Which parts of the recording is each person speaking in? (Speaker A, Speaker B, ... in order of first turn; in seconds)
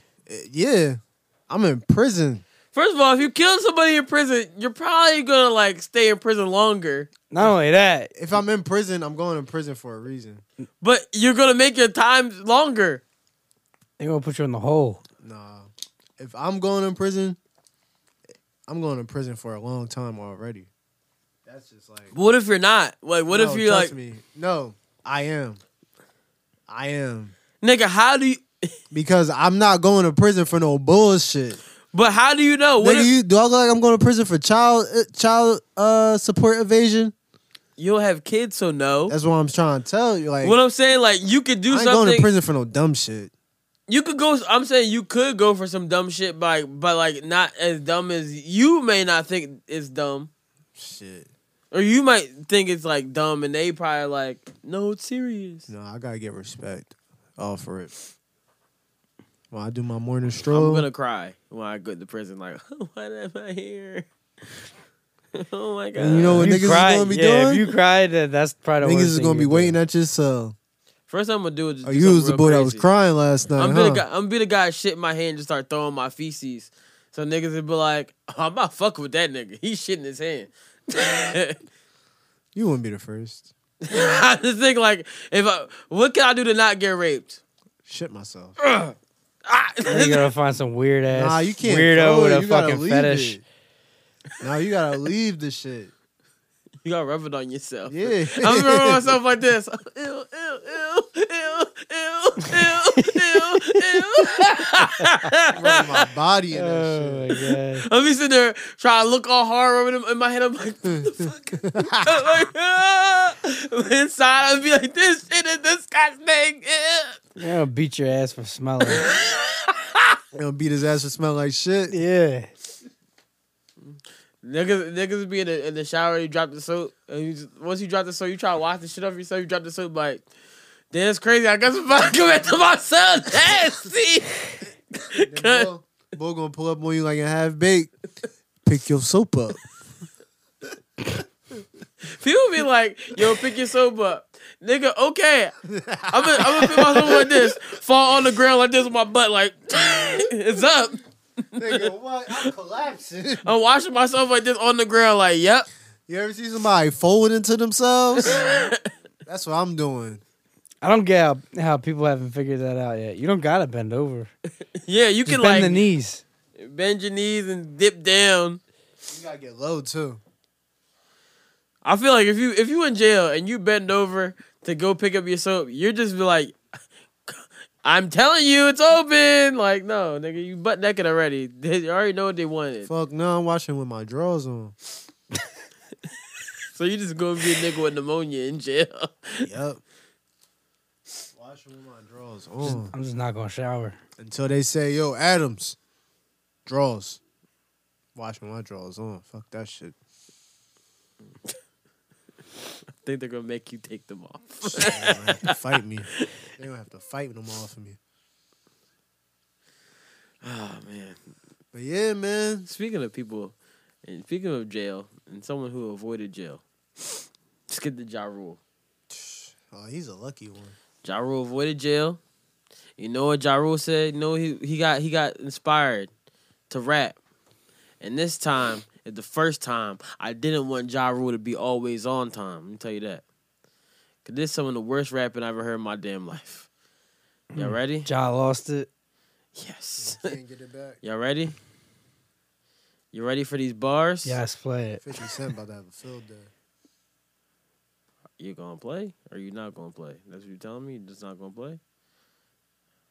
Speaker A: 0.3-2.4, 8.2-10.4, 15.2-17.4, 18.7-20.7, 21.5-22.1, 23.3-25.6, 26.7-27.4, 28.9-31.6, 32.8-37.1, 39.1-40.6, 41.7-43.3, 50.8-51.3, 55.7-57.9, 59.5-60.9, 66.0-67.6, 68.8-70.5, 71.8-74.0, 82.5-83.5, 87.9-88.6, 91.1-93.4, 94.4-95.9, 97.9-99.1, 105.5-107.3, 110.9-112.3, 120.3-122.0, 135.2-137.9, 138.7-139.8, 145.7-147.5, 151.6-153.5, 156.1-158.7, 159.3-160.2, 169.1-170.2, 182.9-184.8, 189.4-189.8, 191.3-192.9, 194.2-195.8, 196.7-197.2, 198.2-199.9, 204.6-208.0, 211.7-212.7, 219.1-220.8, 240.0-241.0, 245.0-246.5
Speaker B: 2.7-7.1, 10.8-13.0, 22.1-23.9, 27.6-28.7, 31.9-33.1, 37.8-39.1, 40.4-42.3, 43.9-50.3, 51.7-55.7, 60.5-64.1, 65.3-66.5, 71.1-72.9, 73.6-81.6, 83.8-87.4, 89.5-90.2, 96.8-106.0, 107.8-117.2, 123.9-130.2, 130.9-134.4, 135.0-135.7, 142.1-145.5, 146.1-151.0, 151.6-151.9, 153.4-155.7, 158.2-158.8, 164.8-165.8, 166.6-168.6, 171.8-176.6, 177.3-182.9, 186.7-189.5, 203.0-205.6, 210.4-211.2, 212.7-216.6, 217.7-218.6, 221.0-222.2, 223.0-226.1, 226.7-227.2, 228.0-233.2, 234.2-236.7, 237.6-238.1, 239.6-240.3, 241.0-241.6, 243.1-244.4, 248.4-251.8
Speaker C: 7.3-8.1, 14.0-15.0, 66.2-69.8, 89.9-93.4, 106.5-107.9, 117.4-119.1, 121.9-122.5, 160.8-164.3, 165.3-166.2, 192.6-194.0, 237.5-238.9, 244.2-245.0